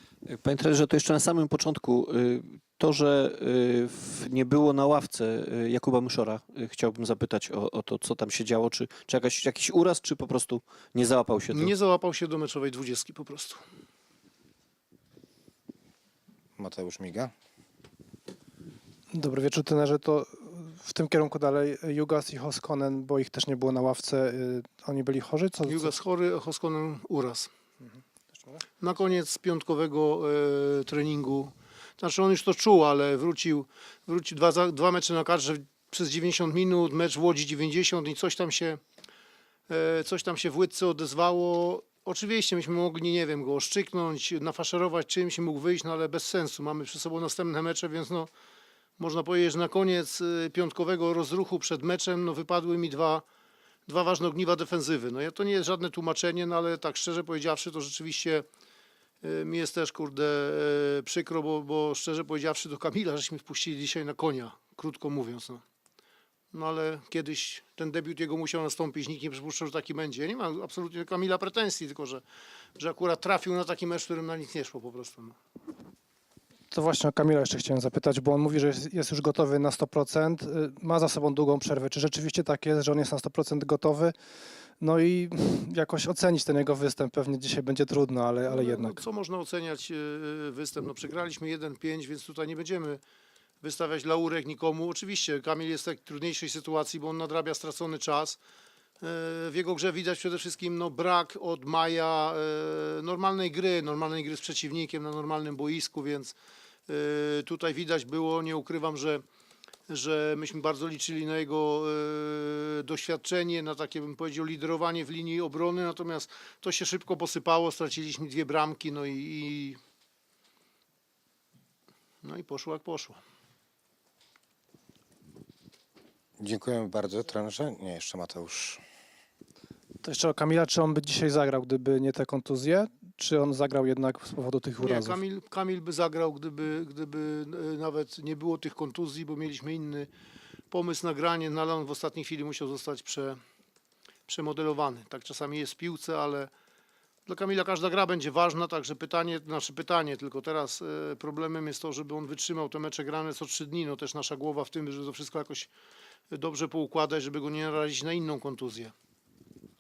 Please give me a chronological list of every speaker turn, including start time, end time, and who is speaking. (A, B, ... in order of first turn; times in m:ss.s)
0:00.3-0:11.7 A
0:11.5-0:13.6 B
0:16.6-0:17.3 C
0:19.1-0:25.9 D
0:25.7-0:27.5 B
0:28.8-0:38.8 B
0:39.7-0:48.3 B
0:49.0-0:53.2 B
0:53.9-0:58.4 B
0:59.2-1:05.6 B
1:06.5-1:12.2 B
1:12.8-1:15.4 B
1:16.7-1:24.1 D
1:24.8-1:29.0 D
1:28.5-1:33.0 B
1:33.6-1:38.4 B
1:39.0-1:46.4 B
1:46.9-1:49.2 B
1:49.9-1:59.8 B
2:02.2-2:03.2 B
2:06.4-2:08.8 C
2:10.0-2:15.2 D
2:14.8-2:20.1 B
2:20.7-2:23.4 B
2:24.3-2:26.5 B
2:27.3-2:35.7 B
2:36.3-2:38.9 B